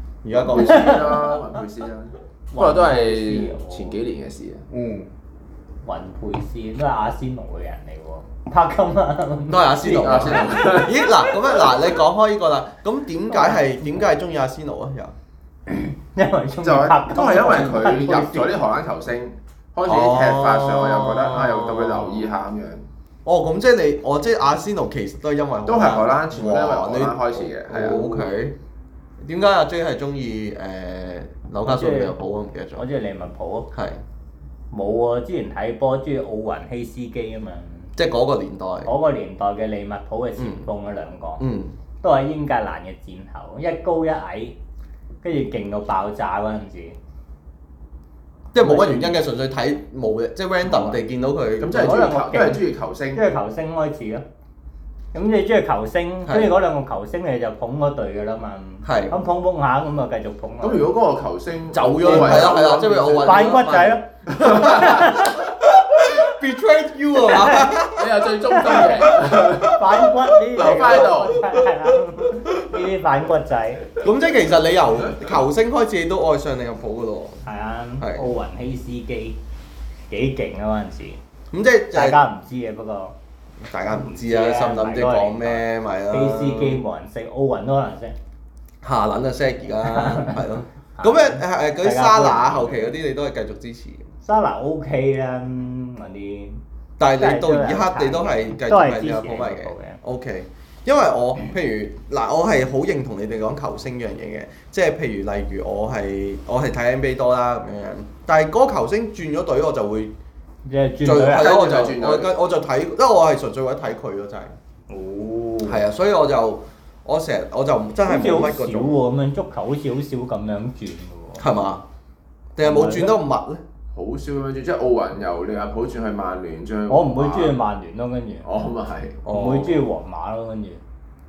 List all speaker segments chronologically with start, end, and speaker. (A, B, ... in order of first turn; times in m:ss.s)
0:00.2-0:01.3 A
0:00.4-0:04.7 B
0:00.5-0:01.4 C
0:02.5-0:04.0 C
0:04.7-0:05.1 A
0:05.8-0:10.9 C
0:09.5-0:15.1 A
0:09.9-0:11.8 B
0:13.3-0:14.0 C
0:15.7-0:18.5 C
0:16.6-0:22.9 B
0:19.9-0:22.3 A
0:23.2-0:28.6 A
0:25.7-0:28.4 B
0:29.2-0:32.8 A
0:31.6-0:32.1 C
0:32.8-0:33.7 C
0:33.7-0:34.0 A
0:34.7-0:37.9 C
0:38.0-0:38.9 A
0:38.8-0:41.4 C
0:40.4-0:40.7 A
0:41.4-0:41.7 A
0:42.0-0:44.6 C
0:45.2-0:47.0 C
0:48.5-0:52.0 A
0:48.6-0:49.2 C
0:50.7-0:51.0 C
0:51.6-0:53.2 B
0:51.7-0:54.2 C
0:55.1-1:00.9 C
0:56.2-0:56.6 A
0:58.8-0:59.1 A
1:00.6-1:03.6 B
1:01.7-1:10.1 A
1:02.0-1:02.6 C
1:03.2-1:05.4 C
1:04.3-1:05.2 B
1:07.2-1:07.8 C
1:07.9-1:09.8 B
1:08.6-1:13.9 C
1:10.6-1:11.4 B
1:11.5-1:12.8 A
1:14.0-1:17.4 A
1:17.4-1:19.4 C
1:18.0-1:18.3 A
1:20.1-1:21.2 C
1:21.5-1:22.2 A
1:21.9-1:23.1 C
1:23.6-1:26.8 A
1:23.9-1:28.2 C
1:28.8-1:34.1 A
1:29.9-1:30.4 C
1:31.0-1:33.0 C
1:34.2-1:36.6 C
1:37.0-1:50.1 A
1:37.2-1:40.0 C
1:50.7-1:51.6 C
1:51.0-1:54.6 A
1:51.3-1:52.3 B
1:54.9-1:55.8 C
1:55.6-1:59.0 A
1:58.0-2:01.4 C
2:01.4-2:01.8 A
2:02.6-2:03.6 A
2:02.6-2:03.2 C
2:03.9-2:07.6 B
2:06.9-2:08.5 C
2:08.4-2:09.2 B
2:09.2-2:09.9 A
2:09.3-2:10.8 C